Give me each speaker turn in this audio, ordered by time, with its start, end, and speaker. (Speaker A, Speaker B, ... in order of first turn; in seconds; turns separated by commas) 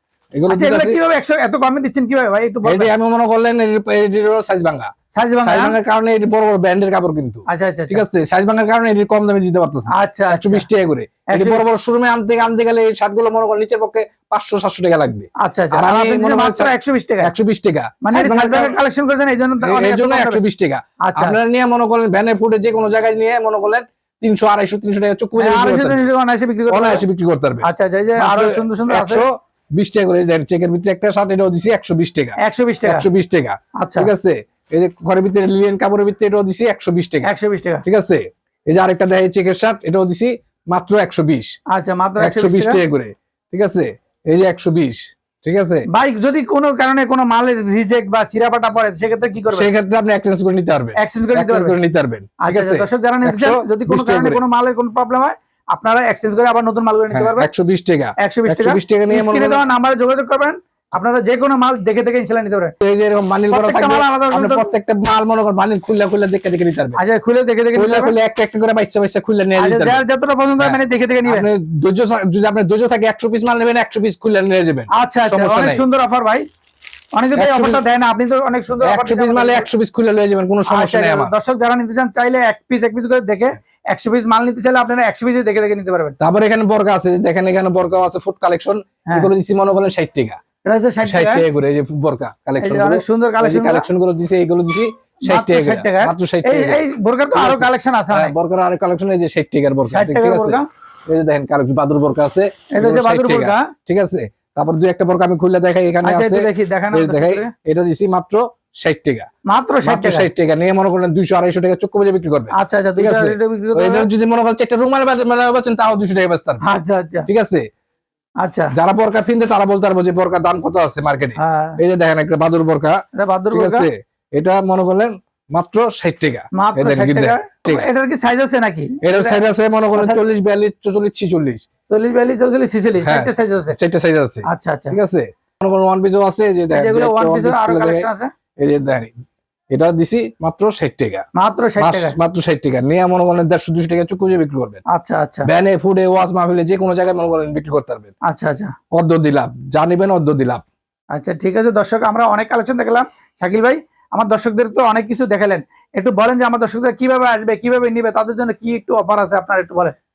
Speaker A: 0.3-1.0, Speaker B: 0.5-2.9, Speaker A: 2.6-16.7, Speaker B: 5.1-5.8, Speaker B: 7.5-8.0, Speaker B: 9.9-10.7, Speaker B: 11.3-11.6, Speaker B: 15.4-17.3, Speaker A: 17.2-18.8, Speaker B: 18.0-20.4, Speaker A: 19.6-26.1, Speaker B: 21.0-21.4, Speaker B: 25.4-27.0, Speaker A: 26.7-27.7, Speaker B: 27.6-29.2, Speaker A: 28.2-37.3, Speaker B: 32.4-33.1, Speaker B: 33.8-34.1, Speaker B: 37.2-37.8, Speaker A: 37.8-41.5, Speaker B: 41.7-42.8, Speaker A: 42.2-45.9, Speaker B: 45.9-49.7, Speaker A: 49.5-54.4, Speaker B: 51.0-51.8, Speaker B: 52.4-57.5, Speaker A: 57.1-59.6, Speaker B: 58.2-62.7, Speaker A: 62.8-67.0, Speaker B: 63.5-64.7, Speaker B: 67.0-68.1, Speaker A: 67.7-70.0, Speaker B: 69.6-71.5, Speaker A: 70.6-75.8, Speaker B: 75.0-76.5, Speaker B: 77.1-79.7, Speaker A: 77.3-77.8, Speaker A: 78.8-81.3, Speaker B: 80.7-86.2, Speaker A: 86.2-90.4, Speaker B: 90.6-91.4, Speaker A: 91.0-96.8, Speaker B: 92.6-93.8, Speaker B: 95.2-98.3, Speaker A: 97.3-109.3, Speaker B: 99.9-100.7, Speaker B: 102.7-103.7, Speaker B: 106.0-107.5, Speaker B: 109.5-110.3, Speaker A: 109.8-116.6, Speaker B: 112.5-114.1, Speaker B: 116.6-117.3, Speaker A: 117.3-117.6, Speaker B: 118.4-118.7, Speaker A: 118.7-123.0, Speaker B: 121.4-121.8, Speaker B: 123.2-123.9, Speaker A: 123.5-127.8, Speaker B: 126.5-129.4, Speaker A: 129.0-131.6, Speaker B: 129.9-130.2, Speaker B: 131.9-133.7, Speaker A: 133.0-138.1, Speaker B: 134.5-135.0, Speaker B: 136.7-138.3, Speaker A: 138.6-139.1, Speaker A: 139.7-141.2, Speaker B: 141.3-142.2, Speaker A: 141.8-144.8, Speaker B: 144.9-145.5, Speaker A: 145.4-148.1, Speaker B: 148.3-148.7, Speaker A: 148.9-150.6, Speaker B: 151.1-159.9